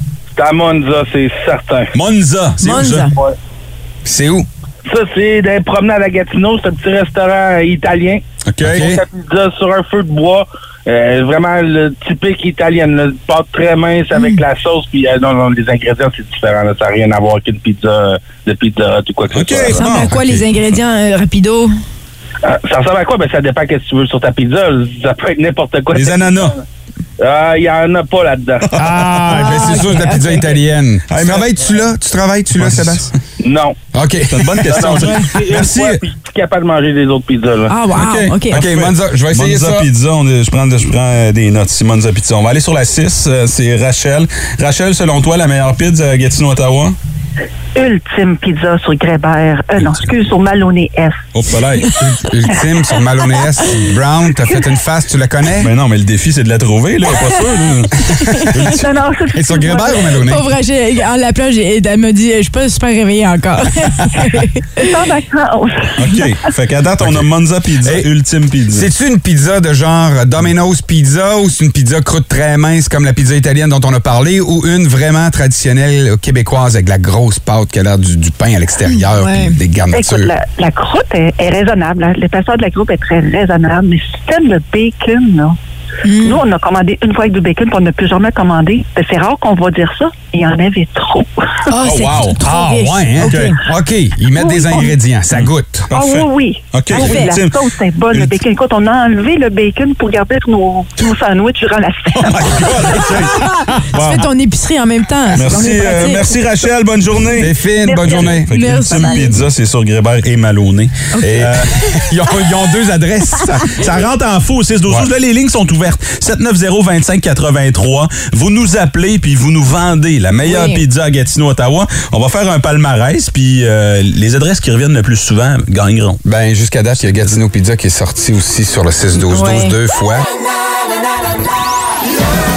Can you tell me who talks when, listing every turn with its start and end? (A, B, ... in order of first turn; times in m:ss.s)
0:00.3-0:01.9 A
0:01.9-0:03.1 B
0:02.6-0:03.1 C
0:04.0-0:04.5 D
0:04.8-0:19.8 A
0:08.4-0:08.9 B
0:08.6-0:09.0 D
0:14.1-0:14.4 C
0:19.3-0:20.4 B
0:19.7-0:21.7 C
0:22.4-0:26.6 A
0:25.9-0:26.6 B
0:27.2-0:28.7 A
0:28.7-0:33.1 D
0:29.3-0:30.6 C
0:31.1-0:31.5 B
0:32.6-0:33.1 B
0:33.4-0:33.8 A
0:33.9-0:35.2 D
0:34.3-0:36.0 B
0:34.7-0:37.7 A
0:37.7-0:38.6 C
0:37.9-0:47.0 B
0:38.5-0:39.9 D
0:47.7-0:51.2 E
0:51.3-0:52.0 B
0:52.2-0:55.7 D
0:55.6-0:58.0 B
0:58.5-0:58.8 B
0:58.7-1:00.0 E
0:59.3-1:00.4 D
1:00.2-1:04.8 C
1:04.8-1:06.3 E
1:06.0-1:08.9 B
1:07.0-1:07.3 D
1:08.7-1:20.3 D
1:19.0-1:19.6 C
1:19.9-1:25.6 E
1:26.0-1:26.4 C
1:26.2-1:31.3 E
1:31.7-1:33.6 C
1:31.8-1:32.4 B
1:32.4-1:35.9 D
1:33.2-1:33.5 B
1:34.4-1:34.9 E
1:35.3-1:37.6 B
1:35.9-1:42.9 E
1:36.9-1:37.4 C
1:42.1-1:44.3 B
1:43.0-1:46.3 C
1:45.3-1:47.5 B
1:47.4-1:48.5 D
1:48.0-1:51.7 B
1:48.3-1:49.4 C
1:51.1-1:51.4 C
1:51.2-1:53.9 D
1:53.7-2:06.2 B
2:00.4-2:00.8 C
2:06.2-2:10.2 D
2:07.0-2:07.4 B
2:09.2-2:09.7 C